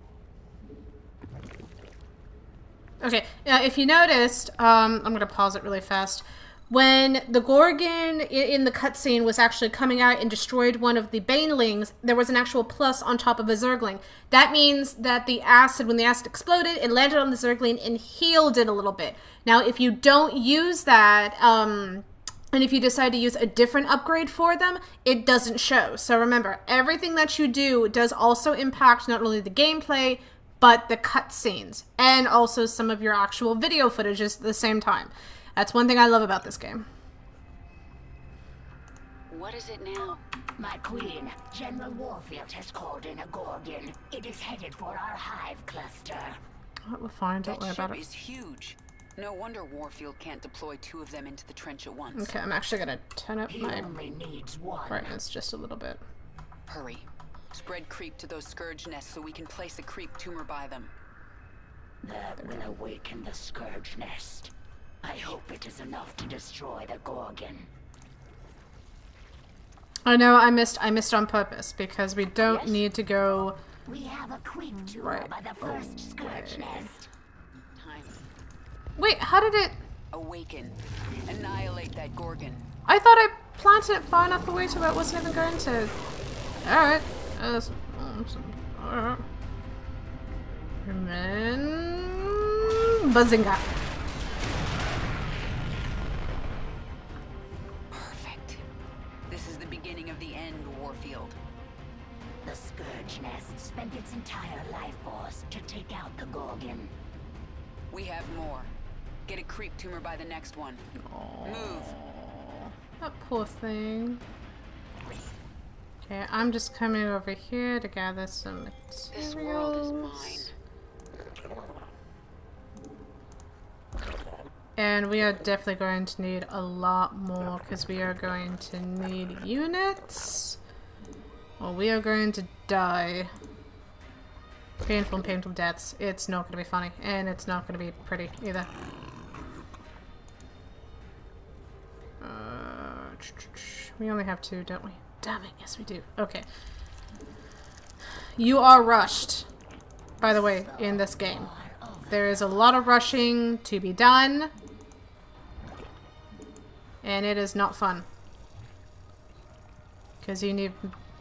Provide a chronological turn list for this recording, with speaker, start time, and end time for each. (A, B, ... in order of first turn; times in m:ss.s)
0:03.0-0:36.8 A
0:39.3-0:40.2 B
0:40.6-0:46.4 C
0:46.9-0:48.0 A
0:47.4-0:52.3 B
0:52.1-0:53.9 A
0:53.5-0:55.1 C
0:54.9-0:56.0 A
0:56.7-1:00.9 B
1:02.0-1:07.7 C
1:10.0-1:13.6 A
1:12.4-1:12.8 B
1:13.8-1:17.1 C
1:15.0-1:16.9 A
1:17.8-1:18.2 B
1:19.0-1:19.8 A
1:20.1-1:22.7 B
1:22.9-1:25.9 A
1:26.6-1:29.2 A
1:30.8-1:33.7 A
1:37.9-1:38.6 B
1:39.3-1:41.4 B
1:42.4-1:46.9 C
1:47.9-1:48.7 B
1:49.2-1:50.8 B
1:51.0-1:54.2 A
1:51.4-1:51.9 B
1:56.0-2:00.5 A
1:59.1-2:00.5 B
2:04.8-2:10.6 A
2:11.6-2:13.3 A
2:14.8-2:18.7 A
2:22.2-2:26.4 A
2:28.4-2:29.5 A
2:30.2-2:31.5 A
2:30.2-2:33.0 C
2:32.1-2:34.5 A
2:37.0-2:38.0 A
2:40.2-2:40.9 A